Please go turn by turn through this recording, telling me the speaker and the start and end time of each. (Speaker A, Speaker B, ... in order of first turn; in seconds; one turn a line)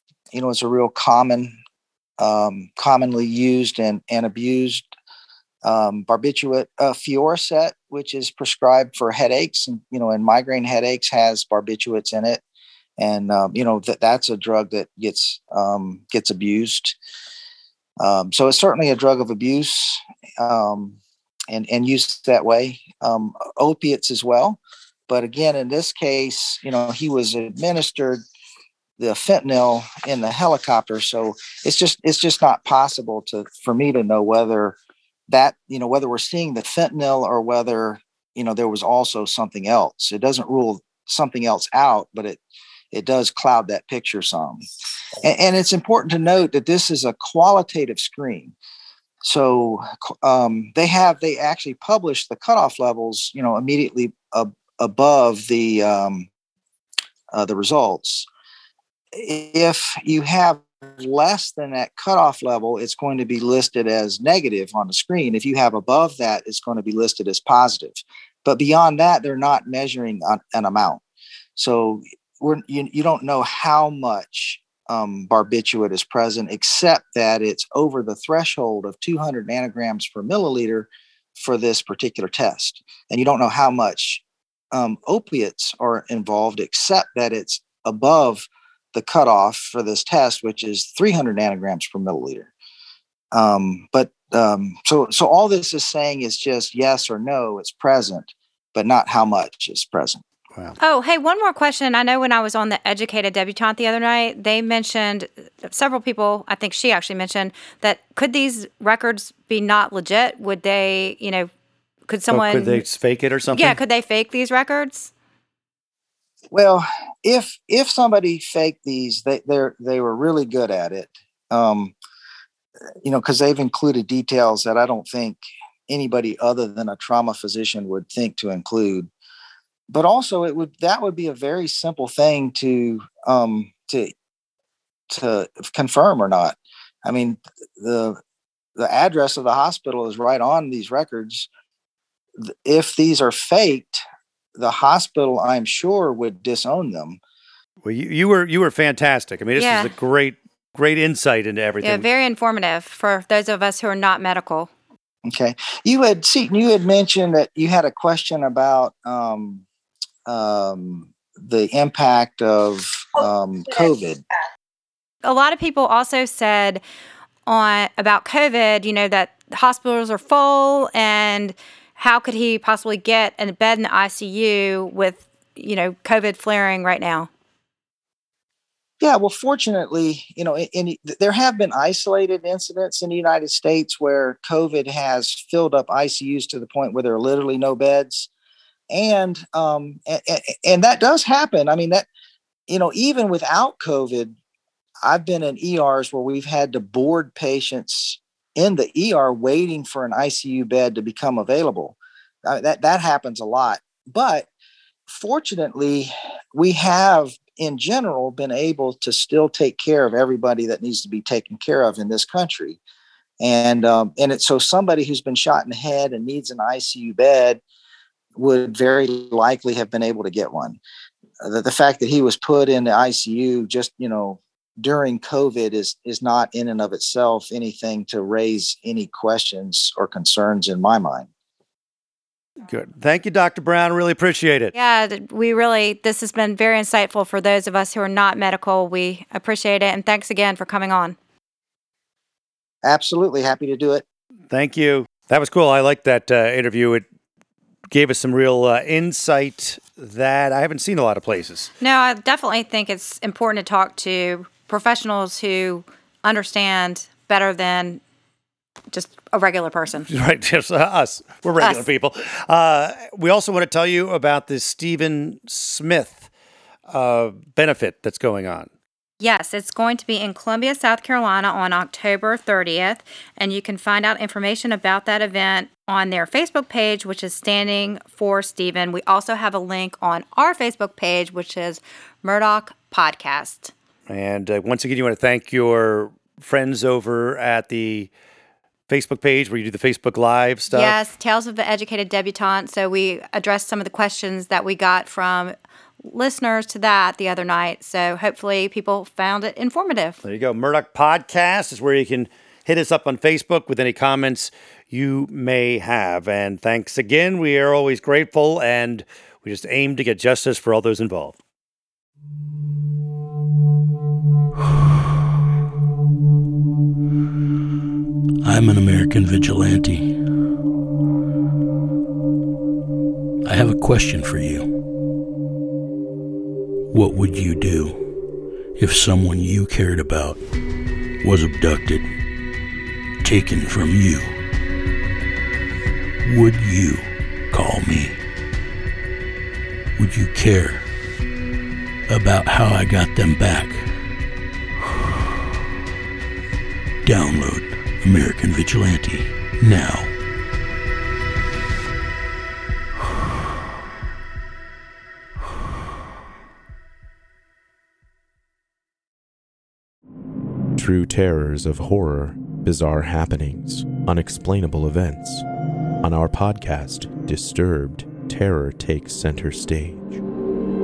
Speaker A: 0.3-1.6
Speaker A: 2.2-4.9
Speaker A: 5.6-12.4
Speaker A: 13.0-17.0
Speaker A: 18.0-28.2
Speaker A: 29.0-34.8
Speaker A: 35.3-42.4
Speaker A: 42.9-44.6
Speaker A: 45.2-48.5
Speaker A: 49.2-56.3
Speaker A: 57.3-58.3
Speaker A: 59.1-71.0
Speaker A: 71.6-92.5
Speaker A: 93.3-100.2
Speaker B: 100.8-111.5
Speaker B: 112.1-112.8
Speaker C: 112.3-113.8
Speaker B: 113.5-115.1
Speaker A: 116.5-121.9
Speaker A: 123.0-129.1
Speaker A: 129.9-134.1
Speaker A: 135.1-138.2
Speaker A: 138.8-141.5
Speaker A: 142.4-144.0
Speaker A: 144.6-147.2
Speaker C: 147.8-152.1
Speaker B: 149.6-149.9
Speaker B: 151.8-154.7
Speaker A: 155.2-159.7
Speaker A: 160.2-164.2
Speaker B: 165.2-166.8
Speaker B: 167.5-177.3
Speaker A: 179.0-188.3
Speaker A: 188.9-192.1
Speaker A: 192.7-194.3
Speaker A: 195.0-204.5
Speaker A: 205.1-212.8
Speaker A: 213.4-217.6
Speaker A: 218.3-220.8
Speaker A: 221.4-231.3
Speaker C: 232.7-234.7
Speaker B: 234.8-241.2
Speaker A: 242.8-244.1
Speaker C: 244.5-247.1
Speaker C: 247.9-251.7
Speaker B: 251.8-258.0
Speaker B: 258.9-260.1
Speaker C: 260.1-266.3
Speaker C: 266.9-268.7
Speaker B: 269.2-283.7
Speaker C: 284.1-288.1
Speaker C: 288.9-290.9
Speaker B: 290.7-300.2
Speaker C: 300.2-311.4
Speaker D: 318.4-320.2
Speaker D: 323.4-324.8
Speaker D: 326.9-328.2
Speaker D: 328.8-330.4
Speaker D: 331.2-332.1
Speaker D: 333.2-334.4
Speaker D: 336.2-338.2
Speaker D: 340.0-340.9
Speaker D: 342.1-344.0
Speaker D: 347.0-350.1
Speaker E: 360.8-365.4
Speaker E: 366.0-370.2